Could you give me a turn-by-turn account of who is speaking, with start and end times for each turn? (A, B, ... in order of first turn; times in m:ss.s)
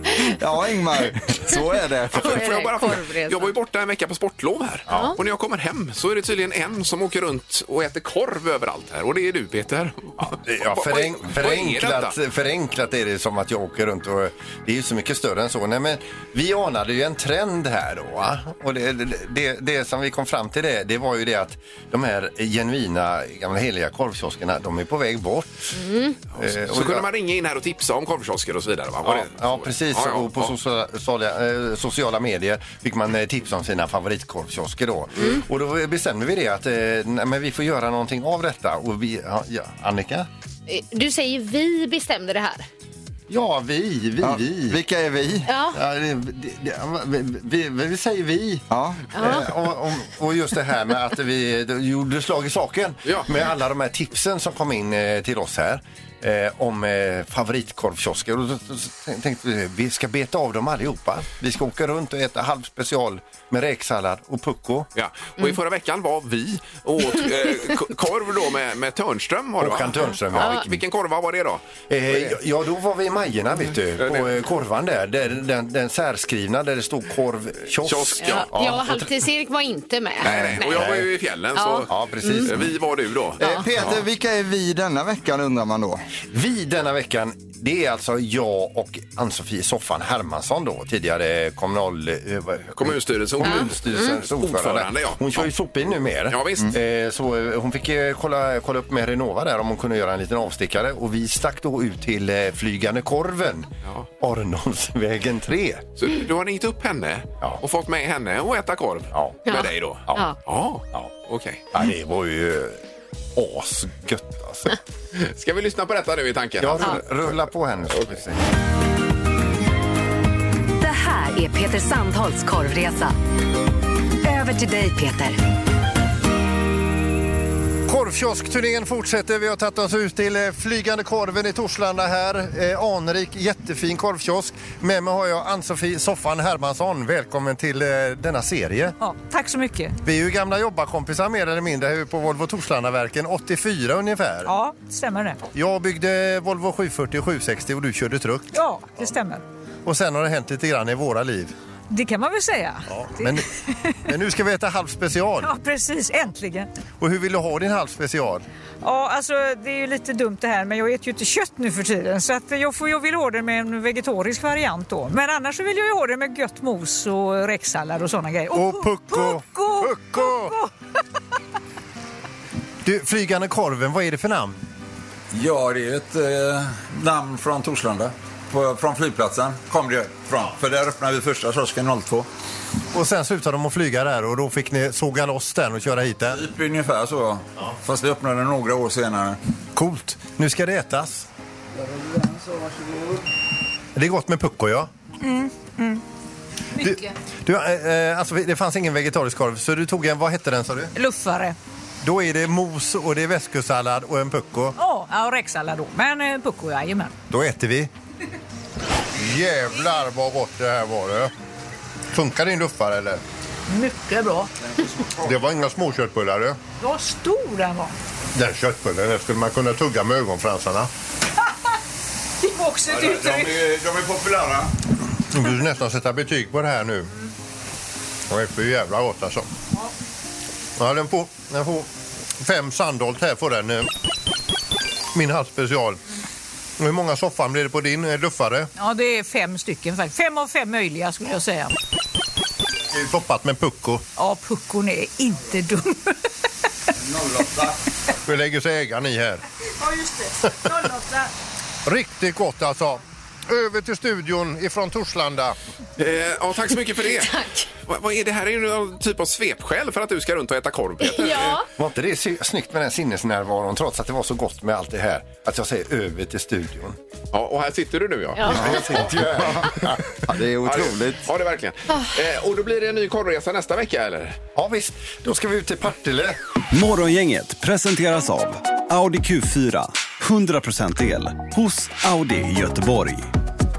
0:00.3-0:02.4 A
0:02.2-0:12.1 B
0:02.2-0:03.5 C
0:04.9-0:05.1 D
0:04.9-0:05.2 C
0:10.2-0:25.8 D
0:25.7-0:26.2 C
0:26.4-0:27.1 D
0:26.4-0:30.5 B
0:29.0-0:40.3 D
0:40.7-0:42.7 C
0:43.3-0:44.8 D
0:44.2-0:45.5 A
0:45.5-0:45.8 C
0:45.7-1:04.9 D
0:48.7-0:49.0 A
0:49.2-0:49.5 C
1:05.0-1:12.4 B
1:09.6-1:10.8 D
1:10.4-1:10.6 C
1:11.9-1:19.1 D
1:14.0-1:14.3 B
1:17.8-1:18.5 B
1:18.2-1:20.9 C
1:20.2-1:23.4 B
1:20.2-1:21.1 D
1:21.6-1:22.5 C
1:21.9-1:22.8 D
1:23.4-1:23.7 C
1:23.4-1:26.0 A
1:26.3-1:43.7 D
1:32.8-1:35.5 B
1:33.4-1:34.2 C
1:36.3-1:36.8 B
1:44.2-1:45.9 D
1:46.0-1:51.7 B
1:49.1-1:49.6 D
1:49.5-1:50.4 C
1:51.7-1:52.8 D
1:53.4-1:54.7 D
1:55.2-1:57.4 B
1:56.6-1:58.4 D
2:00.8-2:03.2 E
2:04.2-2:05.4 E
2:07.9-2:19.0 D
2:19.0-2:20.0 F
2:20.0-2:24.5 D
2:24.4-2:25.4 F
2:25.5-2:29.1 D
2:28.5-2:29.4 F
2:29.8-2:31.6 D
2:31.9-2:33.9 F
2:32.9-2:33.5 D
2:34.1-2:35.5 D
2:35.4-2:36.7 F
2:37.0-2:38.4 D
2:38.8-2:50.7 F
2:48.5-2:50.6 D
2:52.8-2:54.6 D
2:55.3-3:02.3 G
3:02.9-3:06.4 D
3:06.3-3:09.4 G
3:09.8-3:11.3 D
3:14.0-3:14.9 D
3:15.2-3:16.0 F
3:16.8-3:20.9 D
3:16.8-3:17.1 F
3:21.0-3:21.6 F
3:22.0-3:24.8 D
3:24.8-3:27.1 F
3:27.3-3:27.9 D
3:29.2-3:31.3 D
3:32.1-3:33.2 D
3:33.7-3:34.5 F
3:34.7-3:35.4 G
3:35.2-3:36.6 D
3:36.8-3:37.9 F
3:38.4-3:40.9 D
3:42.4-3:43.6 F
3:42.9-3:44.7 G
3:45.3-3:47.1 D
3:48.3-3:49.5 D
3:50.8-3:53.9 D
3:55.1-3:56.0 D
3:56.8-3:58.7 D
3:58.8-4:01.7 F
4:02.9-4:04.0 D
4:04.2-4:06.2 F
4:07.0-4:07.8 G
4:08.2-4:09.4 D
4:09.8-4:11.3 F
4:11.9-4:15.6 D
4:16.0-4:21.6 B
4:17.2-4:17.7 C
4:21.0-4:21.6 C
4:21.8-4:27.0 D
4:27.3-4:28.9 B
4:28.4-4:30.0 D
4:28.5-4:31.3 A
4:30.6-4:34.4 B
4:34.6-4:36.4 D
4:36.7-4:43.3 H